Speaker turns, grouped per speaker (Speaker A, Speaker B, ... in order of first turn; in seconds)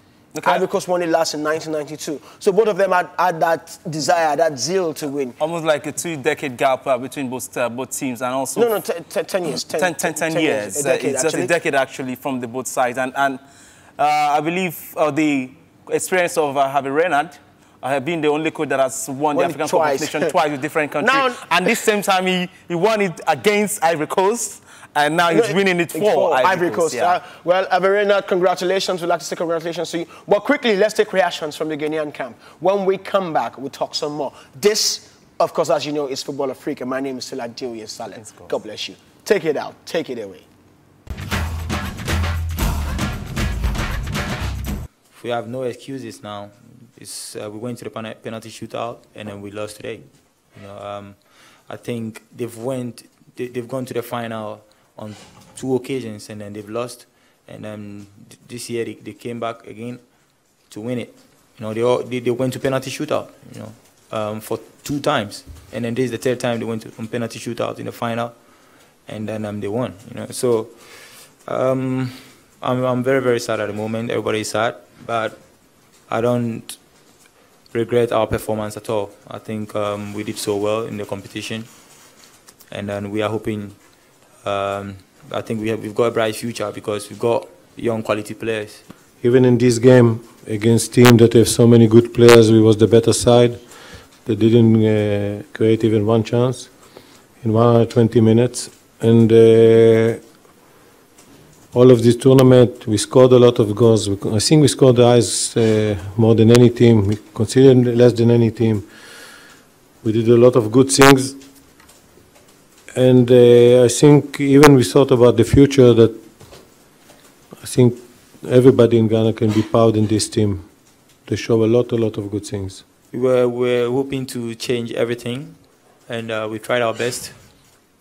Speaker A: 0.3-0.6, 5.4-8.7, 9.8-13.4, 14.0-27.2, 38.2-38.5
Speaker B: 0.4-5.3, 8.6-11.5, 19.3-20.3, 21.0-21.5, 25.3-40.5
Speaker C: 45.1-60.0, 60.7-68.3, 69.1-75.4, 76.1-76.8, 77.7-81.7, 82.7-83.8, 84.4-88.8, 123.1-127.4
Speaker D: 89.2-93.7, 94.2-96.7, 97.4-100.2, 101.7-108.9, 110.0-111.4, 112.9-116.2, 117.6-120.7, 121.3-122.8